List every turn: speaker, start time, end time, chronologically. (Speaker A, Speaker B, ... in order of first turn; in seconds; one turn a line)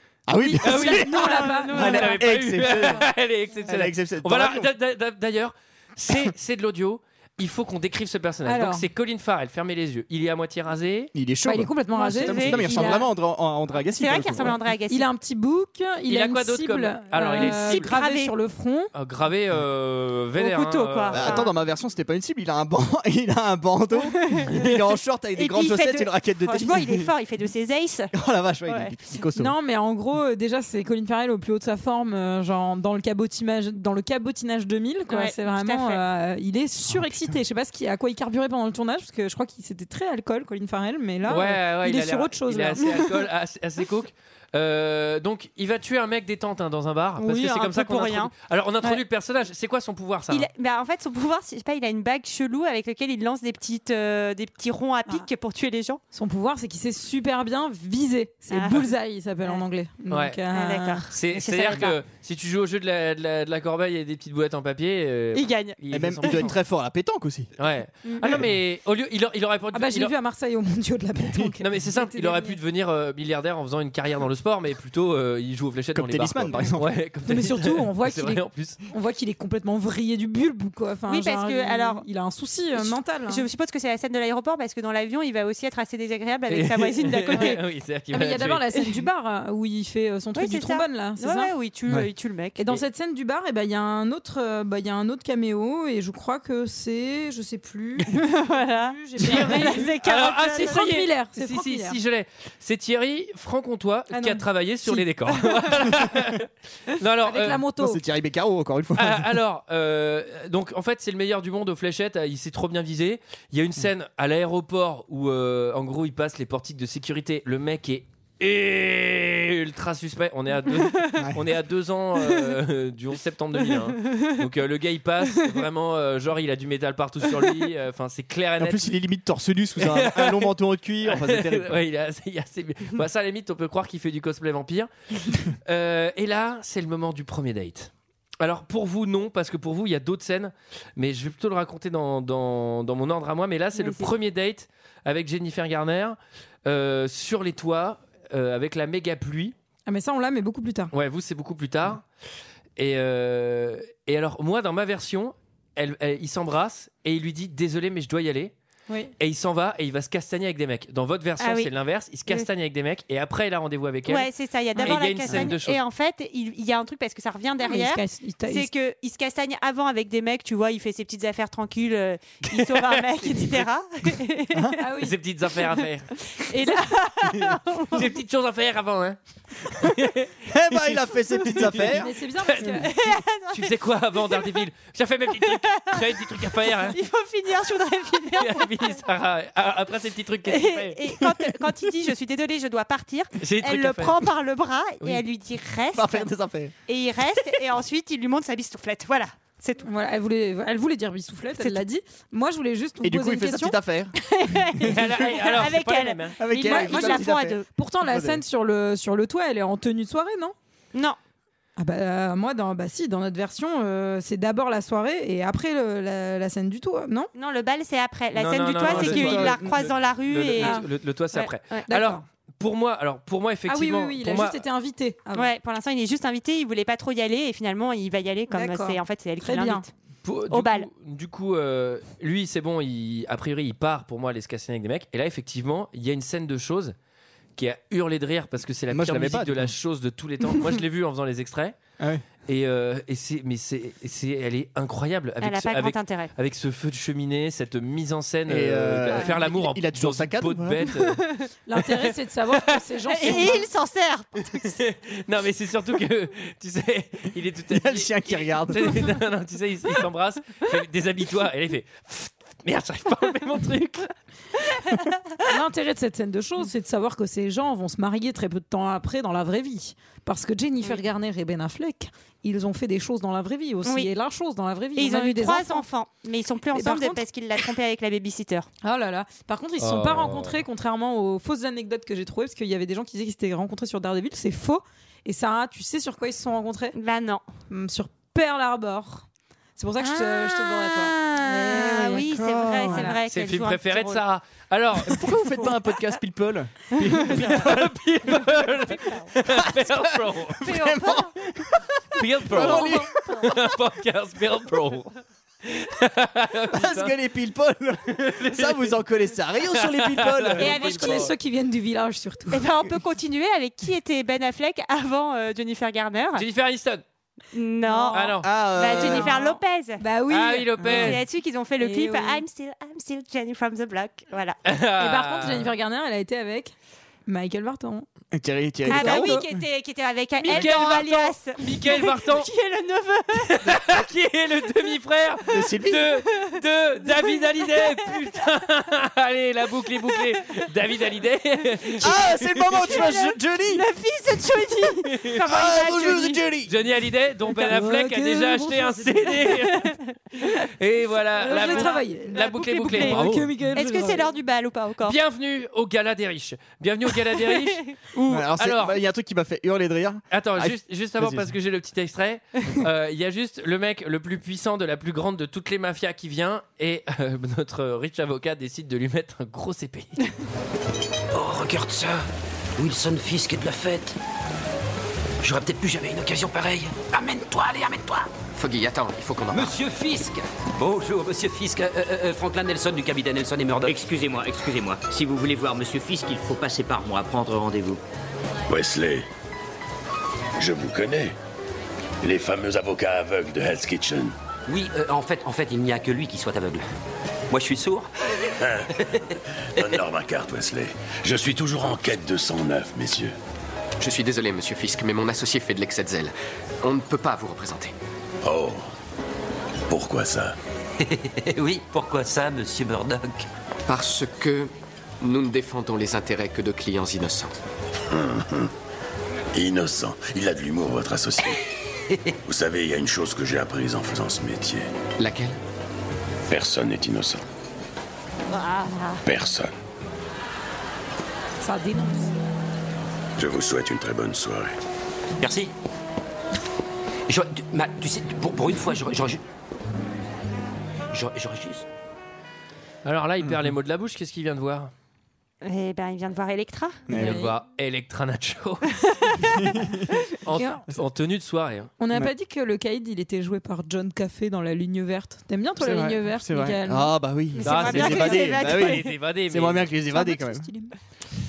Speaker A: 0.3-3.1
Speaker B: 0.4-2.3
Speaker C: 0.6-11.1
Speaker D: 1.2-2.0
Speaker A: 3.6-4.7
Speaker B: 8.4-8.8
Speaker A: 11.1-14.6
Speaker B: 11.4-13.1
Speaker D: 11.9-13.0
Speaker D: 13.9-15.1
Speaker B: 14.9-18.9
Speaker C: 16.1-17.9
Speaker D: 17.3-18.4
Speaker C: 18.9-21.4
Speaker D: 20.4-21.5
Speaker A: 21.1-27.1
Speaker D: 25.4-28.1
Speaker A: 28.1-29.6
Speaker D: 28.7-28.9
Speaker B: 29.4-43.1
Speaker D: 35.1-36.0
Speaker C: 41.3-50.5
Speaker D: 47.2-48.3
Speaker D: 50.3-56.0
Speaker B: 56.1-61.1
Speaker D: 58.5-58.9
Speaker C: 60.1-60.4
Speaker D: 60.5-62.0
Speaker C: 61.1-66.6
Speaker D: 65.3-66.4
Speaker A: 65.9-67.5
Speaker C: 67.6-70.1
Speaker B: 69.7-72.6
Speaker A: 71.3-71.5
Speaker C: 71.6-78.8
Speaker A: 75.9-77.0
Speaker B: 77.3-83.5
Speaker D: 81.1-82.0
Speaker D: 82.8-87.6
Speaker C: 86.5-88.6
Speaker B: 88.1-91.5
Speaker D: 88.8-89.1
Speaker D: 90.3-92.6
Speaker B: 92.6-102.0
Speaker D: 98.1-100.9
Speaker C: 99.2-107.7
Speaker B: 104.1-105.9
Speaker B: 107.2-108.0
Speaker A: 107.8-109.4
Speaker C: 109.0-128.9
Speaker D: 124.0-124.3
Speaker A: 128.6-131.8
Speaker C: 129.8-134.9
Speaker C: 135.4-149.5
Speaker D: 143.8-144.1
Speaker B: 149.9-150.9
Speaker C: 150.9-152.1
Speaker C: 152.8-158.5
Speaker C: 159.2-165.8
Speaker D: 161.4-161.7
Speaker D: 164.1-174.8
Speaker B: 164.8-165.5
Speaker B: 167.6-168.7
Speaker C: 172.5-173.7
Speaker B: 174.8-175.2
Speaker C: 175.0-176.1
Speaker D: 176.3-178.1
Speaker C: 177.9-187.0
Speaker A: 180.5-182.1
Speaker B: 181.9-182.9
Speaker D: 182.6-183.8
Speaker D: 185.3-189.0
Speaker C: 188.4-191.0
Speaker D: 190.5-196.3
Speaker C: 193.4-194.2
Speaker A: 195.9-196.7
Speaker D: 196.9-199.9
Speaker B: 199.8-203.8
Speaker D: 201.6-201.8
Speaker A: 203.0-204.2
Speaker D: 204.2-207.7
Speaker C: 204.8-206.4
Speaker A: 206.4-208.4
Speaker B: 206.6-210.5
Speaker B: 211.8-217.3
Speaker D: 217.3-220.8
Speaker C: 218.3-224.6
Speaker A: 218.8-219.8
Speaker B: 220.6-220.9
Speaker D: 221.3-221.9
Speaker B: 221.9-222.2
Speaker B: 223.7-225.5
Speaker D: 225.3-229.9
Speaker B: 228.5-229.8
Speaker C: 230.2-236.9
Speaker D: 230.5-230.9
Speaker C: 237.6-241.8
Speaker A: 238.9-239.7
Speaker A: 242.0-242.2
Speaker C: 242.5-251.2
Speaker D: 245.4-246.3
Speaker A: 248.5-250.9
Speaker B: 251.7-253.7
Speaker C: 251.9-252.7
Speaker D: 253.1-254.8
Speaker C: 254.6-264.1
Speaker A: 257.7-259.1
Speaker B: 265.4-275.8
Speaker D: 273.9-274.1
Speaker D: 274.9-278.7
Speaker B: 276.7-277.2
Speaker B: 278.8-286.9
Speaker C: 279.8-280.6
Speaker D: 286.9-287.4
Speaker B: 287.7-293.2
Speaker D: 290.0-294.2
Speaker A: 292.2-293.1
Speaker C: 293.3-295.3
Speaker A: 295.0-297.9
Speaker D: 297.3-297.6
Speaker C: 297.3-300.7
Speaker D: 298.7-299.3
Speaker A: 299.4-303.3
Speaker D: 300.6-301.3
Speaker C: 302.1-305.1
Speaker D: 302.5-303.5
Speaker C: 305.6-307.1
Speaker A: 306.7-310.9
Speaker C: 308.1-309.0
Speaker C: 309.6-311.3
Speaker D: 310.6-311.3
Speaker B: 310.6-312.6
Speaker D: 312.5-316.4
Speaker C: 316.4-317.0
Speaker D: 317.5-320.0
Speaker B: 317.9-318.3
Speaker C: 318.1-318.5
Speaker A: 318.4-319.3
Speaker B: 318.9-321.2
Speaker C: 320.3-321.2
Speaker D: 320.8-324.6
Speaker B: 321.8-322.4
Speaker C: 324.6-325.7
Speaker B: 325.0-326.8
Speaker B: 327.3-328.1
Speaker A: 328.3-329.6
Speaker B: 328.9-329.5
Speaker D: 328.9-333.7
Speaker C: 330.4-332.5
Speaker C: 333.3-342.9
Speaker A: 335.5-336.2
Speaker A: 342.0-343.8
Speaker D: 342.7-346.4
Speaker C: 345.0-345.4
Speaker A: 345.5-346.7
Speaker C: 346.6-350.0
Speaker B: 347.4-349.9
Speaker C: 350.6-353.5
Speaker B: 351.3-354.3
Speaker D: 351.4-355.2
Speaker C: 355.0-359.0
Speaker D: 357.5-357.9
Speaker A: 358.3-361.5
Speaker C: 360.3-370.3
Speaker E: 371.3-372.2
Speaker E: 372.8-374.2
Speaker E: 375.4-378.3
Speaker F: 378.6-379.8
Speaker E: 379.5-384.1
Speaker G: 383.8-387.9
Speaker H: 388.7-389.3
Speaker H: 390.6-391.4
Speaker H: 392.2-394.4
Speaker E: 394.7-396.9
Speaker E: 397.5-398.1
Speaker H: 398.6-398.9
Speaker H: 399.8-403.4
Speaker F: 404.0-407.9
Speaker H: 408.4-408.9
Speaker H: 409.9-410.6
Speaker E: 411.0-413.5
Speaker F: 413.9-417.5
Speaker H: 418.1-418.7
Speaker H: 419.5-421.6
Speaker H: 422.5-424.9
Speaker F: 425.2-425.6
Speaker H: 426.5-427.4
Speaker D: 428.5-429.2
Speaker H: 429.3-429.7
Speaker B: 431.6-432.3
Speaker H: 433.4-434.8
Speaker E: 435.4-435.7
Speaker E: 437.3-439.4
Speaker E: 441.1-441.9
Speaker C: 443.1-444.9
Speaker D: 445.6-447.0
Speaker A: 447.1-447.5
Speaker C: 447.1-449.2
Speaker B: 447.2-447.4
Speaker A: 449.6-450.1
Speaker C: 450.4-451.9
Speaker B: 450.5-450.9
Speaker B: 452.0-457.1
Speaker A: 455.8-460.7
Speaker D: 457.6-459.1
Speaker C: 457.6-459.9
Speaker B: 460.0-460.9